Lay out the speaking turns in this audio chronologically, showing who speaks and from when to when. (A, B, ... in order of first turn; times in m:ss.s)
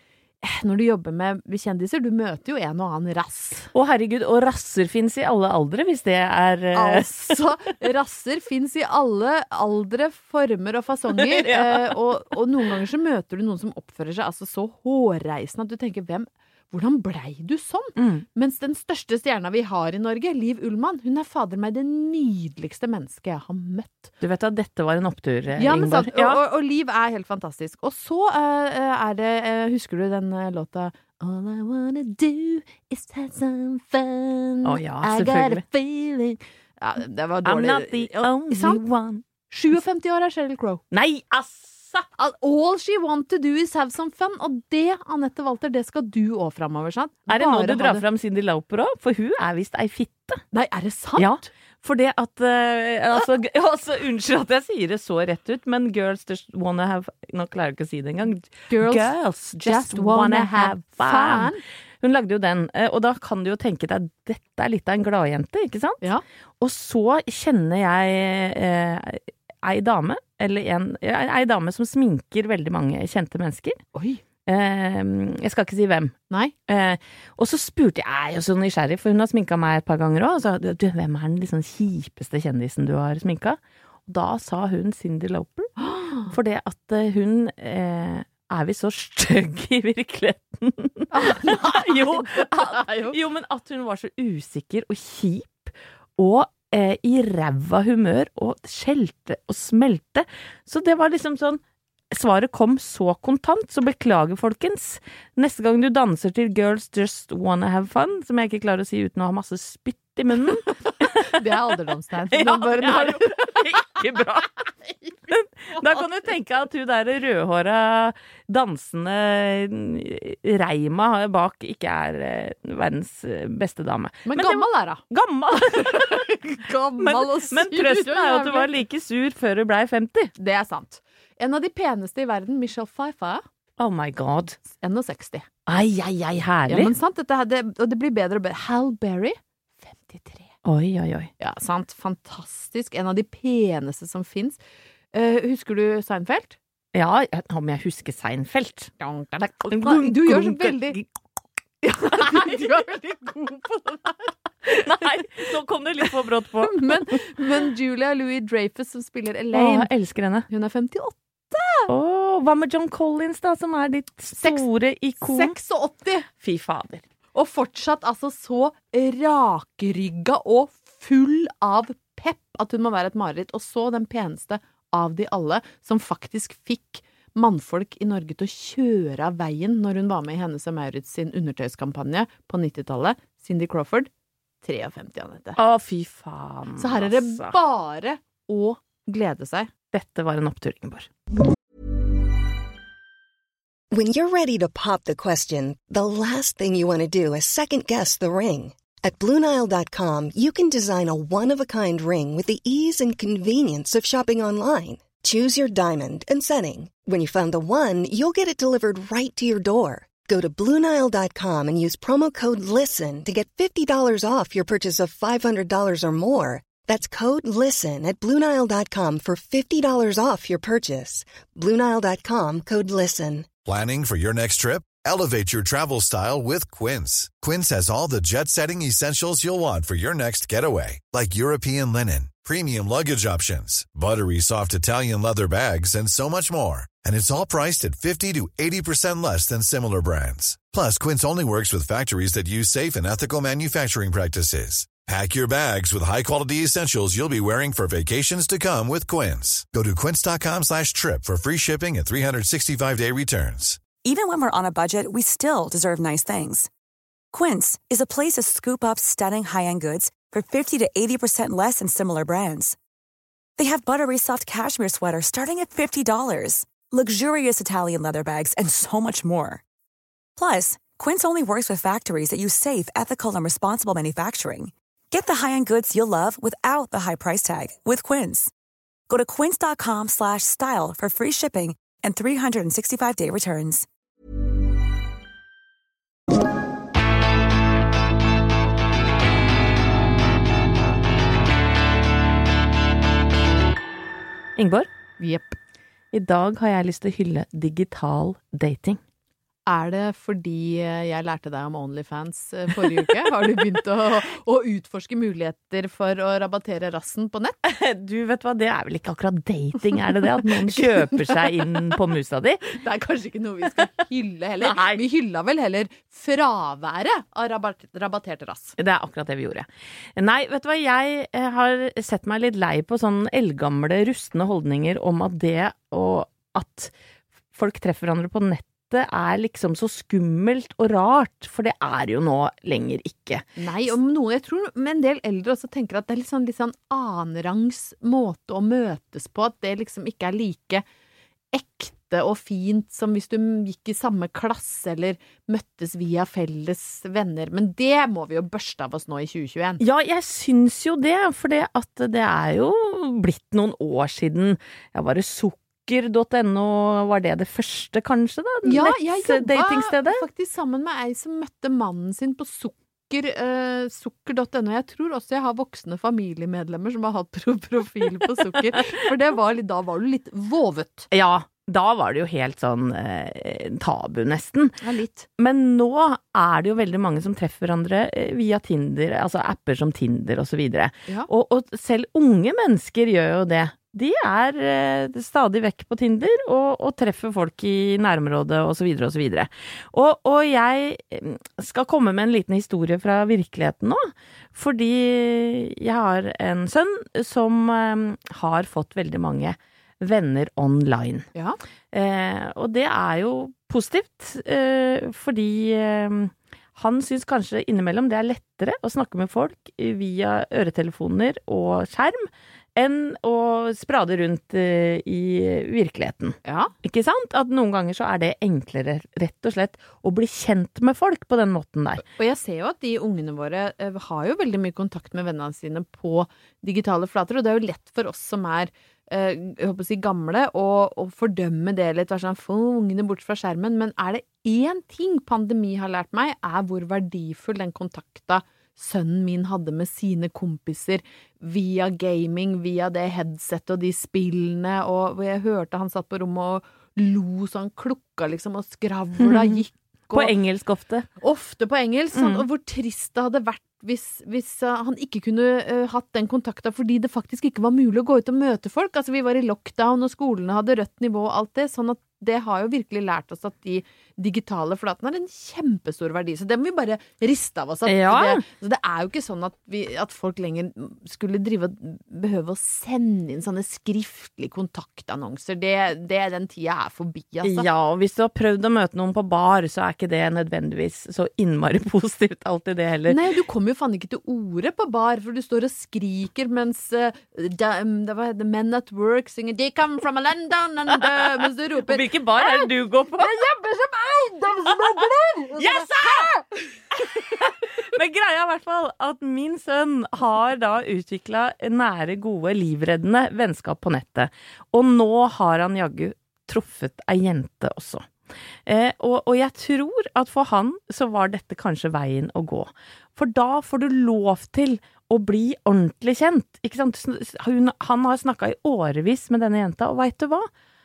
0:00.4-0:03.7 A
0:03.7-0:07.3 B
0:06.7-0:24.1 A
0:11.1-0:12.0 B
0:18.0-0:18.2 B
0:24.2-0:26.4 B
0:25.5-0:38.8 A
0:34.6-0:35.6 B
0:37.4-0:39.2 B
0:39.5-0:40.8 A
0:40.9-0:42.1 B
0:42.2-0:48.0 A
0:47.3-0:50.4 B
0:50.5-0:51.4 A
0:51.2-1:06.0 B
0:58.7-1:01.6 A
1:06.6-1:13.8 B
1:13.9-1:14.2 A
1:14.4-1:25.8 B
1:25.8-1:26.3 A
1:26.3-1:41.6 B
1:31.1-1:33.2 A
1:42.1-1:51.2 B
1:50.7-1:54.0 A
1:52.3-1:54.6 B
1:54.8-1:55.2 A
1:55.3-2:06.3 B
1:55.8-1:56.1 A
2:04.2-2:05.0 A
2:05.7-2:08.7 A
2:07.0-2:10.3 B
2:10.4-2:13.4 A
2:13.8-2:14.6 B
2:14.7-2:15.4 A
2:15.7-2:16.9 B
2:16.7-2:20.5 A
2:20.6-2:21.3 B
2:21.4-2:24.6 A
2:25.1-2:26.6 A
2:26.9-2:28.9 B
2:29.0-2:31.0 A
2:29.5-2:31.0 B
2:31.8-2:35.0 A
2:34.8-2:37.2 B
2:36.6-2:39.9 A
2:39.5-2:40.4 B
2:40.5-2:41.9 A
2:41.9-2:45.5 B
2:44.4-2:44.7 A
2:45.2-2:46.3 A
2:46.4-2:47.0 B
2:47.3-3:04.1 A
3:04.6-3:05.6 A
3:05.6-3:07.5 B
3:06.8-3:09.7 A
3:09.9-3:11.1 B
3:13.9-3:43.5 C
3:43.6-4:13.8 D
4:14.0-4:16.7 E
4:17.3-4:22.8 E
4:23.6-4:29.6 E
4:30.4-4:38.5 E
4:39.1-4:43.8 E
4:54.6-4:54.9 B
4:55.2-4:55.6 A
4:56.1-4:59.0 B
4:59.7-5:07.6 A
5:07.6-5:12.6 B
5:10.4-5:11.5 A
5:12.7-5:18.7 A
5:14.6-5:15.0 B
5:18.8-5:26.9 B
5:27.5-5:33.4 B
5:33.6-5:40.8 A
5:41.5-5:49.8 A
5:49.8-6:00.2 B
5:58.6-6:11.1 A
6:11.1-6:14.7 B
6:14.8-6:15.2 A
6:15.4-6:41.3 B
6:41.3-6:41.6 A
6:41.9-7:02.0 B
6:56.4-6:56.7 A
7:02.1-7:30.3 A
7:29.2-7:31.1 B
7:31.2-7:57.6 A
7:32.1-7:32.4 B
7:47.9-7:48.4 B
7:57.4-8:03.2 B
8:03.1-8:17.2 A
8:11.9-8:13.3 B
8:14.7-8:15.0 B
8:15.6-8:16.3 B
8:17.2-8:28.0 B
8:28.7-8:40.5 B